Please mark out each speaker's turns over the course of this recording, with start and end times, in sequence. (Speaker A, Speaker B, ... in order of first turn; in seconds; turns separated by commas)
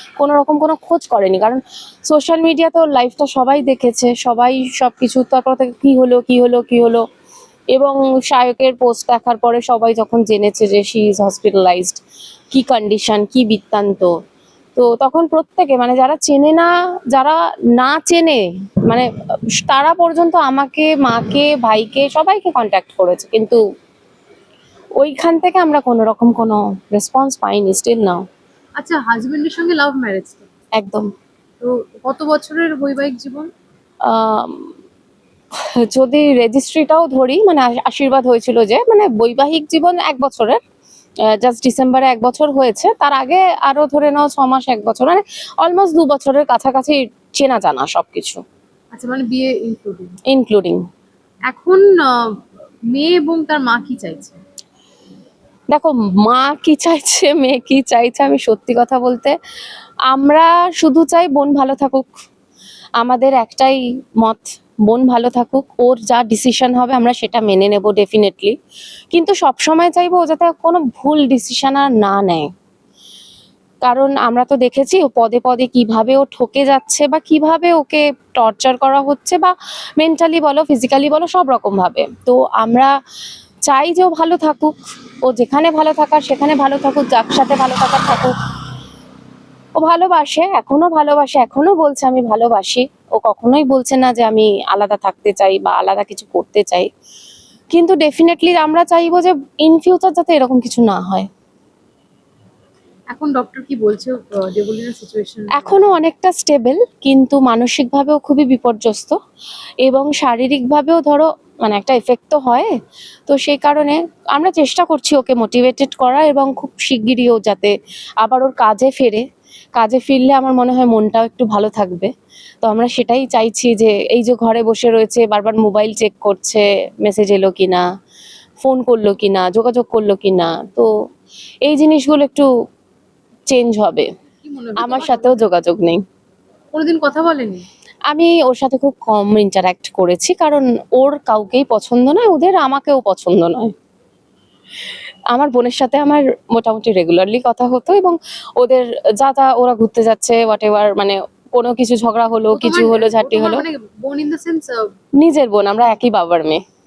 Speaker A: 0.2-7.0, Speaker A: 7.7-12.0, Speaker A: 12.5-14.1, Speaker A: 14.8-23.6, Speaker A: 25.0-28.2, Speaker B: 28.8-30.5, Speaker A: 30.8-31.1, Speaker B: 31.6-33.5, Speaker A: 34.0-34.7, Speaker A: 35.6-40.6, Speaker A: 41.2-48.4, Speaker B: 48.9-50.2, Speaker A: 50.3-50.8, Speaker B: 51.5-52.4, Speaker B: 52.9-54.4, Speaker A: 55.7-59.4, Speaker A: 60.1-62.1, Speaker A: 63.0-68.6, Speaker A: 69.1-72.5, Speaker A: 73.8-82.9, Speaker A: 83.7-88.3, Speaker A: 89.8-96.9, Speaker A: 97.7-101.3, Speaker B: 103.1-105.9, Speaker A: 105.5-109.2, Speaker A: 109.8-112.7, Speaker A: 113.3-119.2, Speaker A: 119.8-122.1, Speaker A: 122.6-127.8, Speaker A: 128.6-130.9, Speaker A: 131.7-132.5, Speaker A: 133.5-134.1, Speaker B: 134.4-135.4, Speaker A: 134.8-136.0, Speaker B: 136.7-137.7, Speaker A: 138.1-143.7, Speaker A: 145.3-153.6, Speaker B: 152.5-154.9, Speaker A: 155.2-156.6